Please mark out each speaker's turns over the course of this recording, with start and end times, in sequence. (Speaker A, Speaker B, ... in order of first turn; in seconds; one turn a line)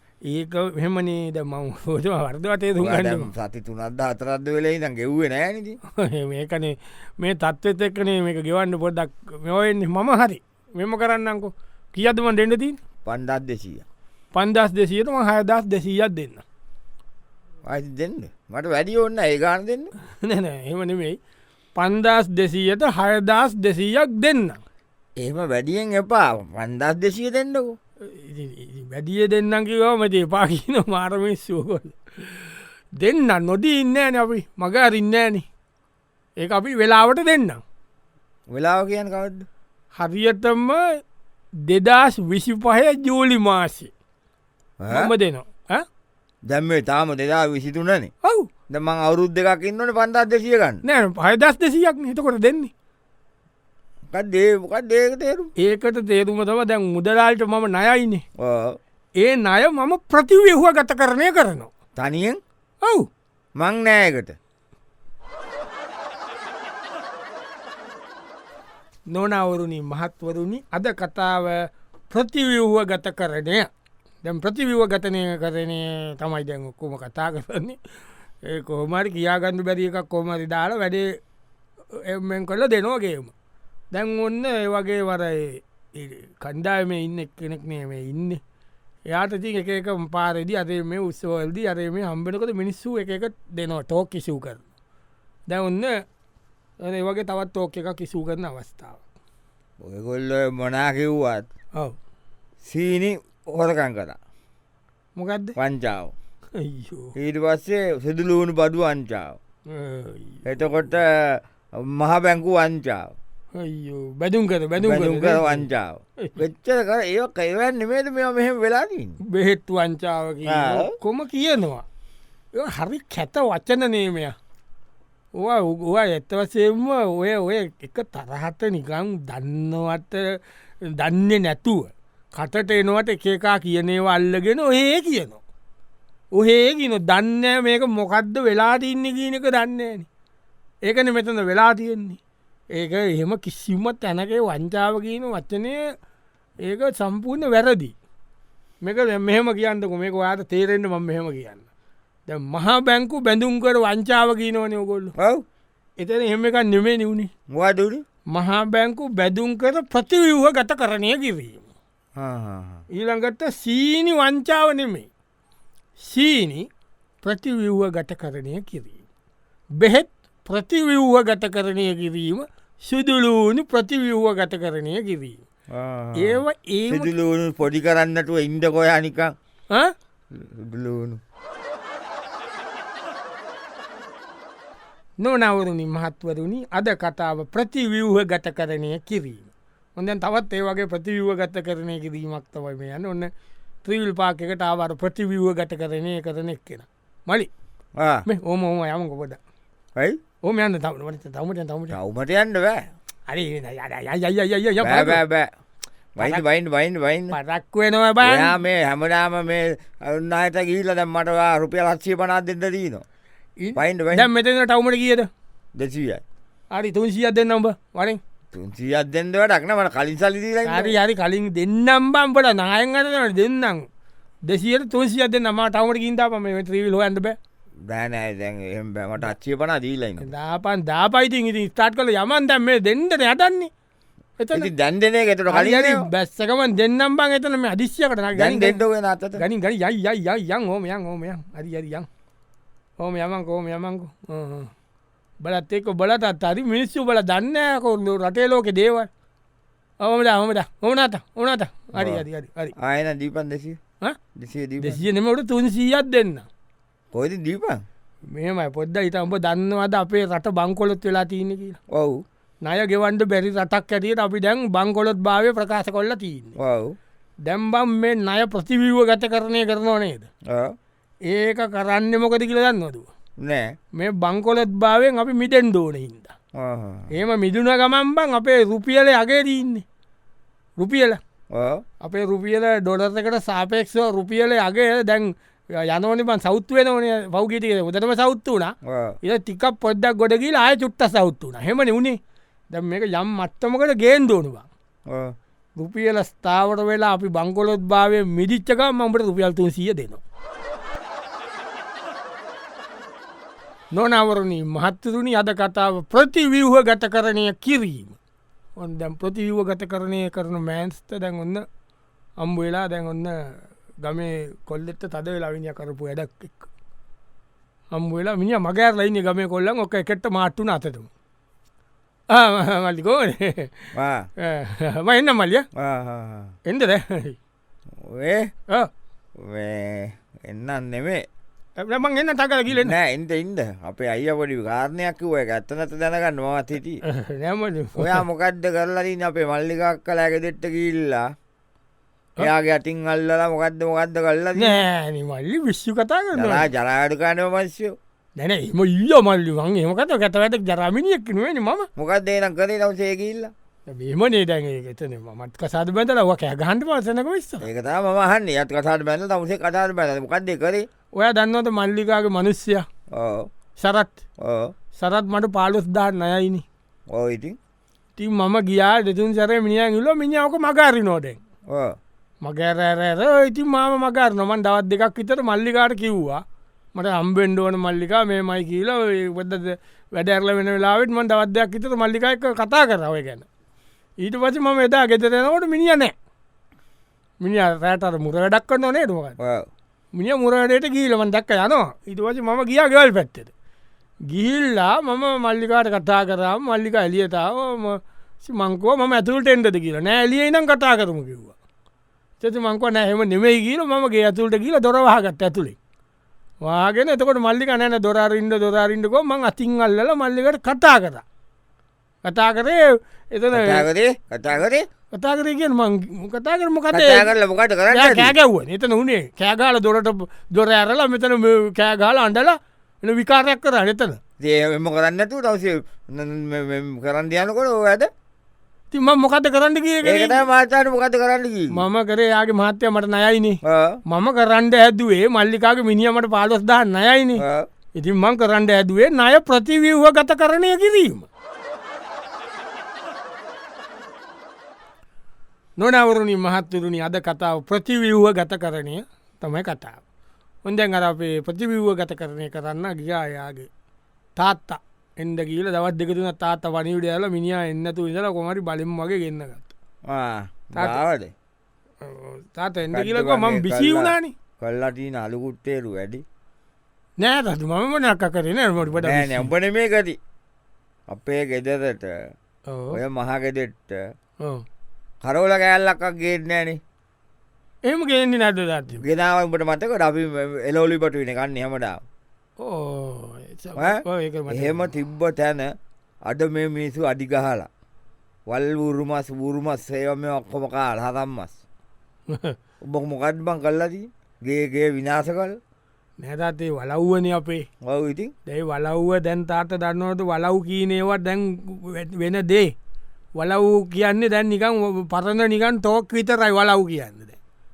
Speaker A: 0.3-3.3
Speaker B: 2.8-5.8
Speaker A: 5.9-12.8
Speaker B: 13.0-13.8
Speaker A: 14.3-16.4
Speaker B: 17.7-19.9
Speaker A: 20.1-21.2
Speaker A: 21.8-24.6
Speaker B: 25.2-27.8
Speaker A: 28.0-35.5
Speaker A: 36.4-37.6
Speaker B: 38.5-39.5
Speaker A: 40.0-41.0
Speaker A: 41.7-43.9
Speaker B: 44.8-45.1
Speaker A: 44.9-45.9
Speaker B: 46.5-48.1
Speaker A: 48.2-48.5
Speaker B: 48.7-50.8
Speaker A: 50.8-52.7
Speaker B: 54.1-55.5
Speaker A: 55.6-58.2
Speaker B: 58.4-58.8
Speaker A: 59.2-61.7
Speaker B: 62.0-62.4
Speaker A: 62.8-63.1
Speaker B: 63.6-64.3
Speaker A: 69.1-73.7
Speaker A: 74.2-77.8
Speaker A: 78.4-81.2
Speaker A: 81.9-83.3
Speaker A: 83.9-88.4
Speaker A: 89.1-94.6
Speaker A: 95.5-96.0
Speaker A: 96.8-99.0
Speaker B: 99.8-101.5
Speaker B: 102.6-104.2
Speaker A: 105.2-105.5
Speaker B: 105.6-106.1
Speaker A: 106.6-107.1
Speaker B: 107.2-109.4
Speaker A: 109.7-110.4
Speaker B: 110.5-113.1
Speaker A: 113.6-115.6
Speaker B: 114.8-119.2
Speaker A: 119.2-121.8
Speaker B: 120.5-120.9
Speaker A: 122.5-124.3
Speaker A: 125.4-135.4
Speaker A: 136.3-140.1
Speaker A: 140.9-142.2
Speaker A: 142.7-145.8
Speaker A: 146.6-147.9
Speaker A: 148.8-151.6
Speaker A: 152.3-155.1
Speaker B: 155.2-155.4
Speaker A: 156.0-157.3
Speaker B: 157.5-158.0
Speaker A: 158.3-161.7
Speaker B: 162.2-162.8
Speaker A: 162.9-165.1
Speaker A: 166.0-166.7
Speaker A: 167.2-169.0
Speaker A: 169.8-175.4
Speaker B: 175.7-179.3
Speaker A: 176.2-177.1
Speaker B: 180.3-181.2
Speaker A: 185.2-193.3
Speaker A: 193.8-197.5
Speaker B: 198.0-198.2
Speaker A: 198.3-199.4
Speaker A: 200.4-201.9
Speaker B: 201.9-202.8
Speaker A: 203.3-205.2
Speaker B: 204.8-205.5
Speaker B: 206.2-207.3
Speaker A: 207.3-208.6
Speaker B: 208.2-213.1
Speaker A: 213.6-215.3
Speaker B: 213.8-214.3
Speaker B: 215.8-216.2
Speaker A: 216.7-218.2
Speaker B: 218.5-220.9
Speaker A: 220.6-223.9
Speaker A: 224.4-227.4
Speaker B: 227.9-230.3
Speaker A: 230.2-233.7
Speaker A: 234.4-234.7
Speaker B: 234.5-236.1
Speaker A: 235.5-238.8
Speaker B: 238.4-239.4
Speaker A: 239.4-242.1
Speaker A: 243.0-244.7
Speaker A: 245.4-249.1
Speaker A: 250.0-252.7
Speaker B: 251.9-252.2
Speaker B: 252.8-253.8
Speaker B: 254.3-255.0
Speaker A: 254.8-256.4
Speaker B: 257.1-257.8
Speaker A: 258.3-261.8
Speaker B: 261.9-262.2
Speaker A: 262.6-266.6
Speaker B: 266.6-266.9
Speaker A: 267.4-270.3
Speaker A: 271.3-273.1
Speaker B: 273.4-273.6
Speaker A: 274.0-276.3
Speaker B: 276.6-277.1
Speaker A: 277.1-279.8
Speaker A: 280.8-281.2
Speaker B: 281.5-281.8
Speaker A: 282.0-292.2
Speaker B: 288.9-289.1
Speaker A: 292.7-294.7
Speaker A: 295.8-300.2
Speaker A: 303.9-308.2
Speaker A: 308.8-311.6
Speaker A: 312.4-316.7
Speaker A: 317.9-321.1
Speaker A: 322.3-325.6
Speaker B: 323.9-324.3
Speaker B: 325.8-326.5
Speaker A: 326.7-327.4
Speaker B: 328.0-328.5
Speaker B: 329.4-331.2
Speaker A: 331.8-332.9
Speaker B: 332.7-337.0
Speaker A: 337.1-338.2
Speaker B: 338.0-341.2
Speaker B: 342.4-344.8
Speaker A: 344.6-346.7
Speaker B: 346.4-347.9
Speaker A: 348.4-351.9
Speaker B: 352.0-353.5
Speaker A: 353.9-357.7
Speaker B: 357.6-360.9
Speaker A: 361.1-362.9
Speaker B: 363.1-363.5
Speaker A: 363.8-364.2
Speaker B: 364.4-364.7
Speaker A: 364.9-366.6
Speaker B: 367.1-367.6
Speaker A: 368.2-371.4
Speaker B: 371.7-371.9
Speaker A: 372.4-376.4
Speaker A: 376.9-383.5
Speaker A: 384.2-386.1
Speaker A: 387.4-389.4
Speaker B: 389.4-389.7
Speaker A: 390.1-393.5
Speaker A: 394.3-401.5
Speaker A: 402.4-405.8
Speaker A: 406.6-411.2
Speaker A: 412.2-413.9
Speaker B: 413.5-414.9
Speaker A: 415.1-417.3
Speaker B: 416.9-418.4
Speaker A: 417.9-424.2
Speaker B: 424.4-428.1
Speaker A: 428.9-430.4
Speaker B: 430.0-431.8
Speaker A: 431.7-437.4
Speaker B: 433.6-434.0
Speaker B: 437.4-437.7
Speaker A: 438.0-441.3
Speaker A: 445.8-450.0
Speaker A: 450.6-453.7
Speaker A: 454.4-459.7
Speaker B: 460.1-461.3
Speaker A: 460.8-461.0
Speaker A: 462.0-464.3
Speaker B: 462.9-466.2
Speaker A: 467.2-469.5
Speaker B: 468.9-470.2
Speaker B: 471.1-472.3
Speaker A: 472.7-473.0
Speaker B: 472.9-474.0
Speaker B: 475.2-476.8
Speaker A: 477.9-479.0
Speaker B: 479.0-482.0
Speaker A: 482.6-484.9
Speaker B: 483.8-485.7
Speaker B: 486.2-487.7
Speaker B: 488.5-491.6
Speaker A: 492.3-492.6
Speaker B: 492.8-495.6
Speaker A: 496.2-497.6
Speaker B: 497.8-498.3
Speaker A: 498.5-502.7
Speaker A: 503.4-507.4